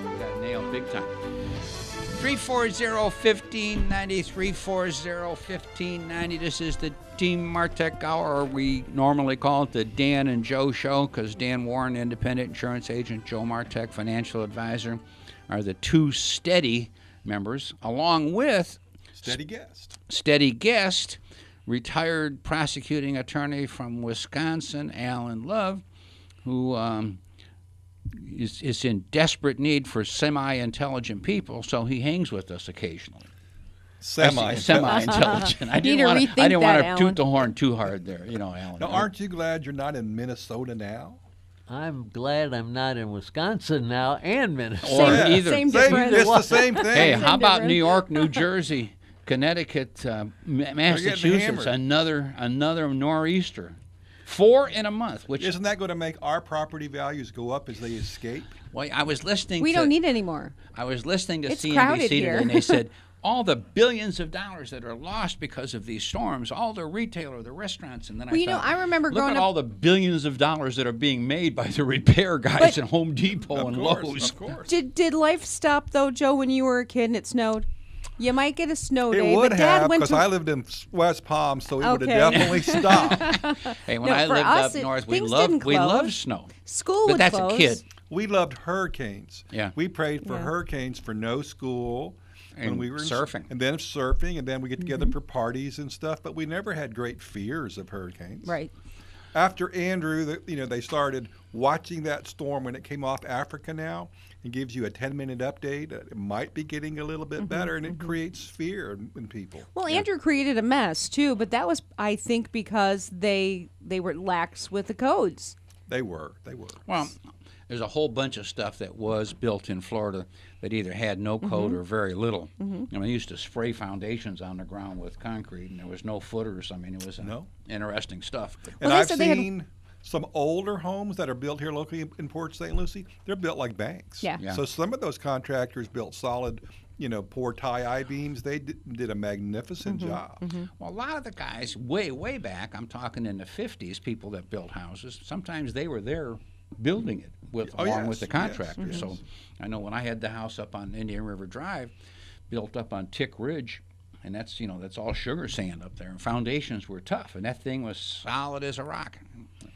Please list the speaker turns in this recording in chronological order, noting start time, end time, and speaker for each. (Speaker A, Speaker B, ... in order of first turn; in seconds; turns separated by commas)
Speaker A: 0.1-1.2, Speaker A: 2.1-19.4, Speaker B: 19.1-20.0, Speaker A: 20.1-25.8, Speaker A: 26.4-27.2, Speaker A: 28.1-33.3, Speaker B: 34.0-35.5, Speaker A: 34.2-39.1, Speaker C: 34.8-37.2, Speaker B: 38.8-41.2, Speaker D: 41.7-46.4, Speaker A: 44.8-55.5, Speaker C: 44.9-48.4, Speaker B: 45.0-47.3, Speaker B: 50.9-51.8, Speaker B: 55.4-58.6, Speaker A: 58.7-60.0, Speaker C: 59.6-60.5, Speaker A: 60.7-74.4, Speaker C: 61.5-62.8, Speaker C: 68.3-69.5, Speaker B: 73.5-74.7, Speaker C: 74.7-77.7, Speaker C: 78.2-80.3, Speaker B: 79.1-83.3, Speaker C: 81.8-87.8, Speaker A: 82.3-87.8, Speaker B: 88.1-98.5, Speaker C: 90.2-90.5, Speaker A: 92.5-93.5, Speaker C: 94.8-95.1, Speaker C: 98.5-98.7, Speaker B: 99.3-109.7, Speaker C: 107.4-108.1, Speaker C: 109.7-115.5, Speaker B: 115.9-117.1, Speaker A: 116.8-128.8, Speaker C: 121.4-121.8, Speaker C: 122.6-122.9, Speaker B: 127.2-127.5, Speaker B: 128.8-140.4, Speaker C: 128.8-129.5, Speaker C: 139.8-140.7, Speaker A: 140.8-151.9, Speaker B: 147.6-149.2, Speaker A: 152.5-159.5